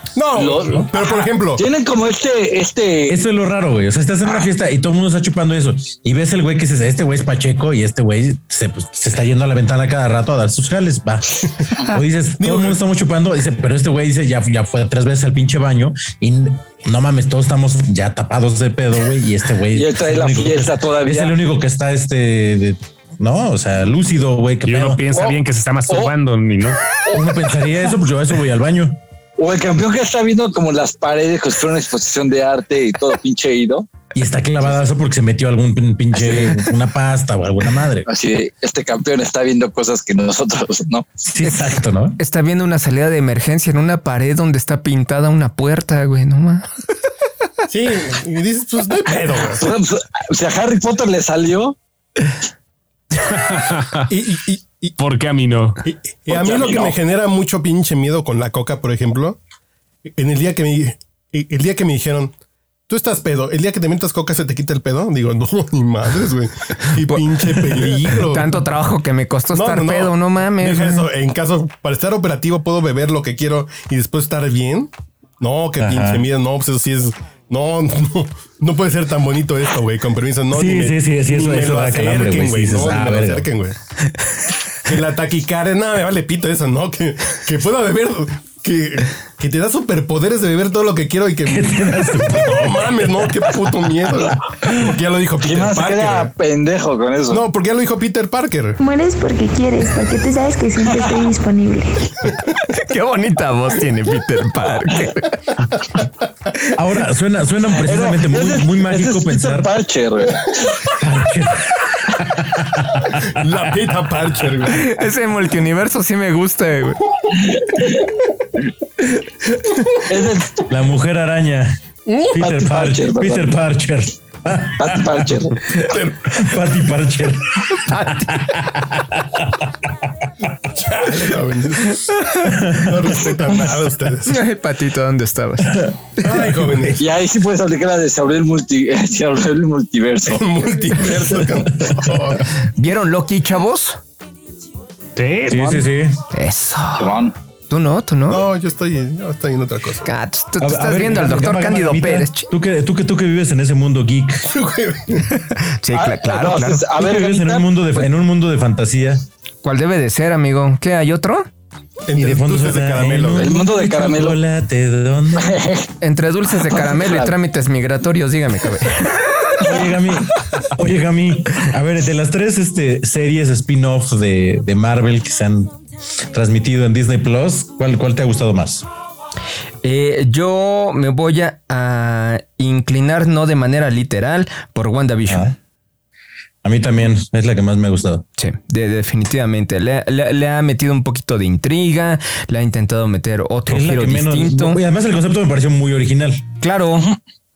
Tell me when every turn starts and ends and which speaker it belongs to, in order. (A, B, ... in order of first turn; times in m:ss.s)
0:00.2-0:01.6 A
0:00.4-0:03.2 B
0:03.1-0:25.0 C
0:12.4-0:12.8 A
0:19.7-0:21.4 B
0:24.6-0:26.8 D
0:25.1-0:26.1 B
0:26.9-0:27.3 B
0:27.1-0:29.0 C
0:29.4-0:33.9 B
0:34.1-0:38.1 C
0:34.6-0:34.9 B
0:36.1-0:36.6 B
0:38.0-0:41.1 B
0:41.3-0:42.2 C
0:42.2-0:46.7 E
0:47.7-0:49.7 A
0:49.5-0:51.8 B
0:53.2-0:54.1 D
0:54.1-0:55.0 A
0:55.0-0:55.8 D
0:55.8-0:59.4 A
0:56.3-0:56.9 B
1:00.0-1:02.3 A
1:02.9-1:08.6 A
1:07.0-1:11.1 E
1:09.5-1:23.8 A
1:15.8-1:16.2 C
1:20.5-1:23.4 C
1:24.8-1:36.3 A
1:31.4-1:33.2 C
1:35.4-1:37.4 B
1:37.3-1:38.8 A
1:38.8-1:42.2 F
1:42.6-1:45.5 E
1:46.7-1:49.7 C
1:47.8-1:50.8 B
1:50.9-1:53.4 C
1:53.3-1:54.9 A
1:54.7-1:57.0 E
1:57.3-1:58.6 B
1:59.5-2:00.0 E
2:00.0-2:00.6 B
2:00.7-2:01.8 C
2:02.3-2:05.4 C
2:02.4-2:03.6 B
2:04.8-2:05.6 B
2:05.9-2:06.4 A
2:06.3-2:09.6 C
2:07.7-2:08.4 E
2:10.8-2:12.1 A
2:12.4-2:13.0 C
2:12.7-2:14.4 A
2:14.3-2:15.8 E
2:15.7-2:16.9 C
2:16.2-2:17.0 A
2:17.0-2:20.4 B
2:20.2-2:22.4 A
2:22.8-2:24.0 E
2:25.2-2:25.9 D
2:25.5-2:26.2 C
2:26.3-2:27.2 E
2:27.0-2:27.3 B
2:27.7-2:28.5 E
2:28.3-2:30.1 A
2:30.0-2:32.5 E
2:30.6-2:34.5 C
2:34.4-2:35.3 A
2:35.3-2:36.8 E
2:35.9-2:38.1 B
2:36.9-2:39.2 C
2:39.6-2:41.5 E
2:42.1-2:43.5 A
2:42.2-2:45.6 C
2:43.4-2:44.4 B
2:45.3-2:45.9 B
2:46.0-2:49.6 E
2:46.6-2:47.3 B
2:49.6-2:55.7 C
2:56.3-2:58.8 C
2:59.8-3:05.5 E
3:05.3-3:05.5 C
3:06.6-3:08.2 C
3:08.4-3:14.8 E
3:13.7-3:16.4 C
3:16.6-3:17.1 E